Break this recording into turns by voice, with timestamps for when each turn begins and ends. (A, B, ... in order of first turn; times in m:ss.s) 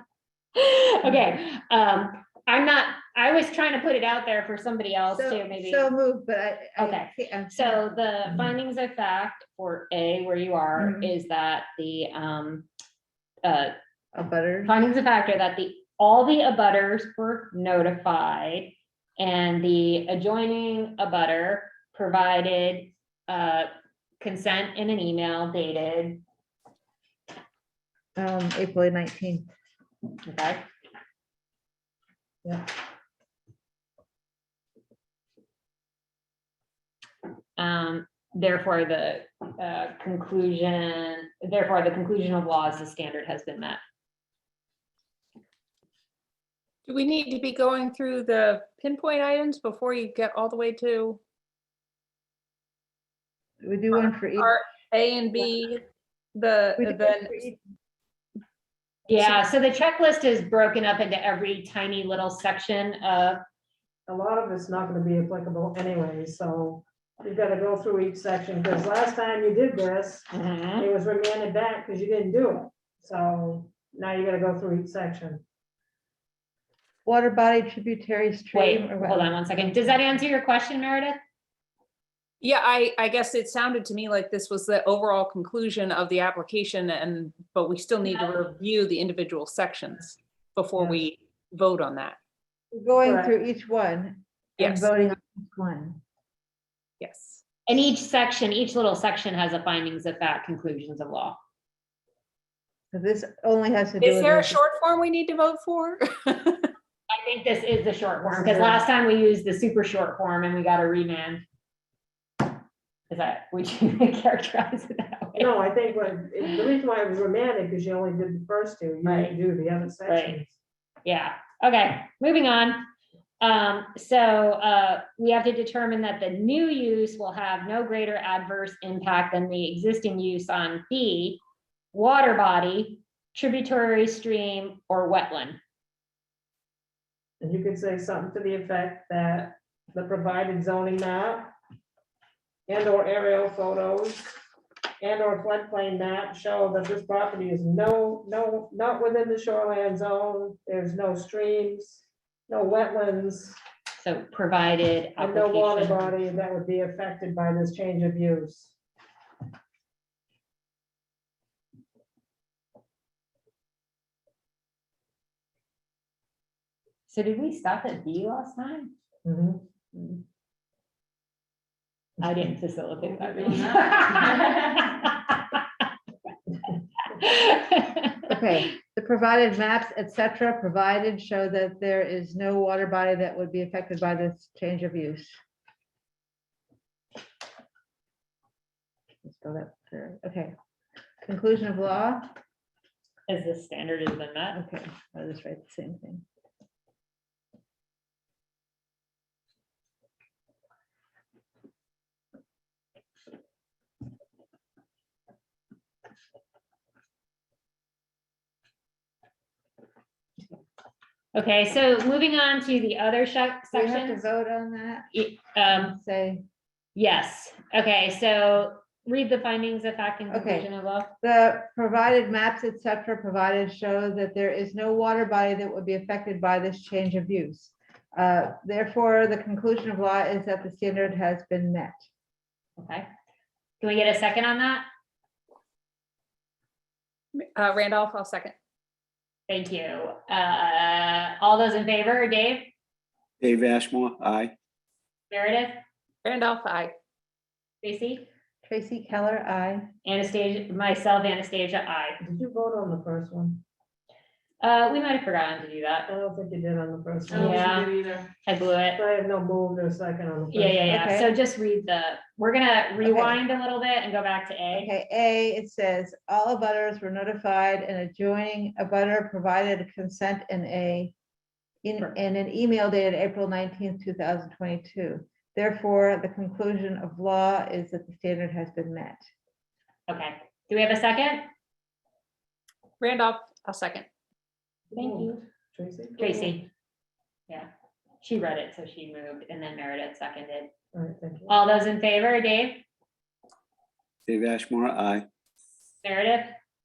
0:00.6-0:05.9 A
0:05.1-0:07.8 B
0:06.8-0:12.7 A
0:10.8-0:11.1 B
0:13.4-0:13.8 A
0:14.2-0:14.8 B
0:14.7-0:26.2 A
0:28.2-0:29.5 B
0:30.2-0:30.6 A
0:37.6-0:43.8 A
0:46.9-0:51.2 C
0:53.6-0:54.6 B
0:54.3-0:55.8 C
0:56.4-0:57.4 C
0:56.8-0:57.6 B
0:59.1-1:03.4 A
1:04.1-1:10.3 D
1:10.3-1:10.9 A
1:10.8-1:15.4 D
1:17.0-1:19.4 B
1:18.5-1:21.2 A
1:22.4-1:32.2 C
1:32.7-1:36.0 B
1:33.0-1:33.3 D
1:34.6-1:34.9 C
1:37.0-1:37.4 C
1:37.7-1:41.4 A
1:42.9-1:44.6 B
1:44.0-1:46.7 C
1:47.1-1:51.4 A
1:48.2-1:48.8 D
1:53.1-1:55.5 A
1:55.4-2:00.6 D
1:59.0-1:59.4 A
2:00.1-2:00.4 A
2:01.0-2:02.9 A
2:03.4-2:11.4 A
2:11.9-2:15.6 A
2:17.4-2:21.5 D
2:22.7-2:24.4 D
2:25.0-2:33.6 D
2:34.0-2:36.2 A
2:35.2-2:38.7 D
2:47.1-2:48.9 A
2:49.2-2:49.6 D
2:49.9-2:50.2 A
2:52.2-2:55.6 A
2:57.2-2:58.4 A
2:58.3-3:05.4 B
3:09.2-3:10.5 B
3:11.2-3:12.4 B
3:13.3-3:14.6 A
3:14.5-3:16.2 B
3:31.3-3:34.3 A
3:33.7-3:35.1 B
3:35.1-3:36.0 A
3:35.7-3:36.4 B
3:37.0-3:41.1 A
3:40.3-3:40.7 B
3:41.2-3:52.0 B
3:52.8-3:53.1 A
3:53.8-3:54.8 A
3:57.4-3:58.5 C
3:59.5-4:02.7 A
4:03.4-4:04.5 E
4:05.3-4:05.8 A
4:06.2-4:06.9 C
4:07.8-4:08.3 A
4:08.6-4:09.9 B
4:10.0-4:12.2 A
4:12.2-4:13.6 D
4:14.6-4:16.1 A
4:16.1-4:17.6 D
4:17.3-4:19.0 A
4:19.0-4:20.9 D
4:20.5-4:24.9 A
4:20.9-4:21.3 B
4:23.0-4:23.4 B
4:24.7-4:31.1 B
4:31.8-4:39.3 B
4:40.1-4:41.5 A
4:43.0-4:44.1 C
4:44.9-4:46.6 D
4:45.0-4:45.4 A
4:46.2-4:46.7 A
4:48.2-4:50.7 A
4:50.9-4:51.5 D
4:51.5-4:52.8 A
4:54.3-4:55.3 E
4:56.0-4:56.6 A